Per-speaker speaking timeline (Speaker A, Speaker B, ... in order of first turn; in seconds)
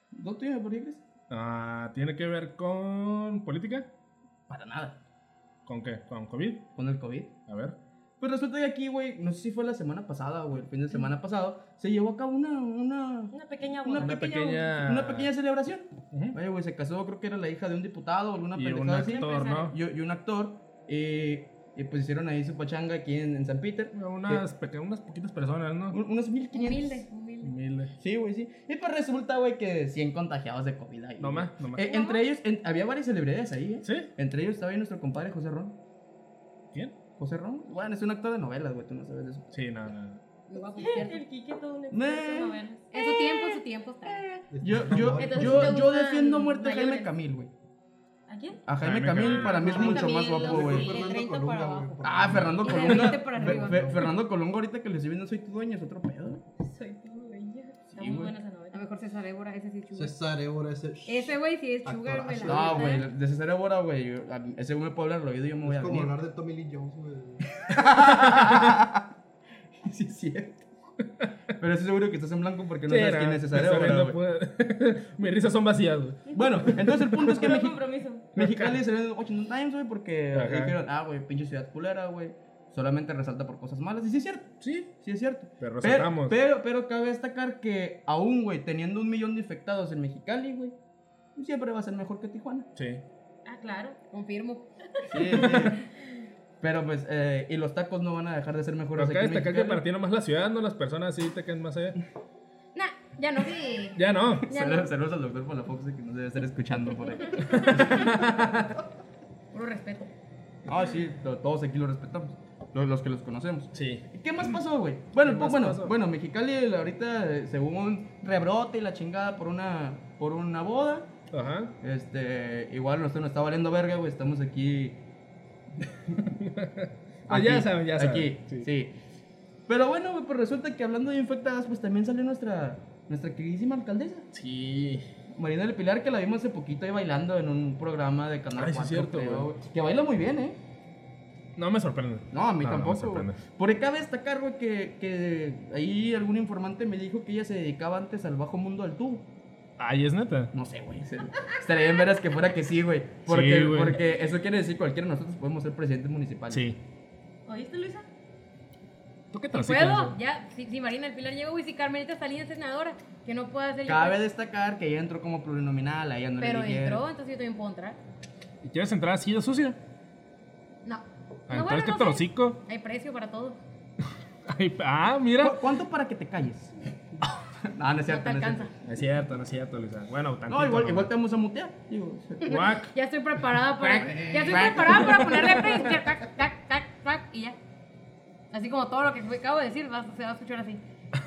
Speaker A: 0.1-1.0, 4.5-5.0, 6.8-7.4, 8.2-13.3, 13.8-24.4, 25.9-27.1, 28.0-35.8, 37.2-39.5, 41.9-42.6, 44.6-47.5, 48.7-50.9, 52.0-56.4, 58.0-58.3, 62.4-66.1, 67.7-69.1, 69.8-70.6, 71.6-74.2, 76.3-77.8, 78.3-90.8, 91.3-92.7, 95.1-95.9, 96.6-99.8, 104.4-108.8, 110.7-121.2, 121.8-125.0, 125.9-126.3, 127.3-128.9, 129.7-134.3, 135.3-140.6, 142.3-149.3, 150.5-156.7, 163.9-167.0, 175.4-176.8, 177.6-178.7, 180.5-182.6, 184.2-185.3
Speaker B: 1.3-3.9, 5.7-6.7, 7.5-7.8, 14.0-15.3, 16.1-16.4, 18.5-19.8, 23.9-26.0, 27.4-27.9, 31.2-31.9, 33.8-34.1, 39.5-40.2, 48.8-49.7, 72.9-77.3, 78.4-78.8, 80.3-80.8, 84.6-84.9, 85.6-86.4, 92.8-93.0, 99.0-102.0, 104.0-104.5, 107.5-108.6, 113.7-114.0, 115.2-116.0, 121.3-121.8, 126.4-128.7, 134.3-135.1, 138.5-139.5, 141.6-143.4, 149.8-150.5, 153.3-154.0, 156.5-156.8, 159.3-160.2, 168.6-169.8, 171.5-172.6, 174.5-175.6, 178.8-181.1, 182.5-182.9, 183.7-185.9
Speaker C: 13.3-14.6, 19.2-19.6, 40.8-43.6, 45.2-47.1, 48.3-48.6, 49.6-51.9, 56.6-58.8, 77.2-78.3, 93.5-94.0, 157.5-158.1
Speaker D: 26.5-27.5, 40.5-41.2, 42.9-44.2, 45.2-47.1, 49.4-51.9, 52.6-53.9, 58.7-60.2, 61.1-63.1, 94.1-95.5, 102.8-104.9, 109.5-110.1, 159.5-164.2, 166.4-168.0, 170.8-173.6, 178.1-178.7, 182.4-187.6, 188.5-190.8
Speaker E: 44.5-45.9, 49.6-54.0, 59.9-63.0, 65.6-67.5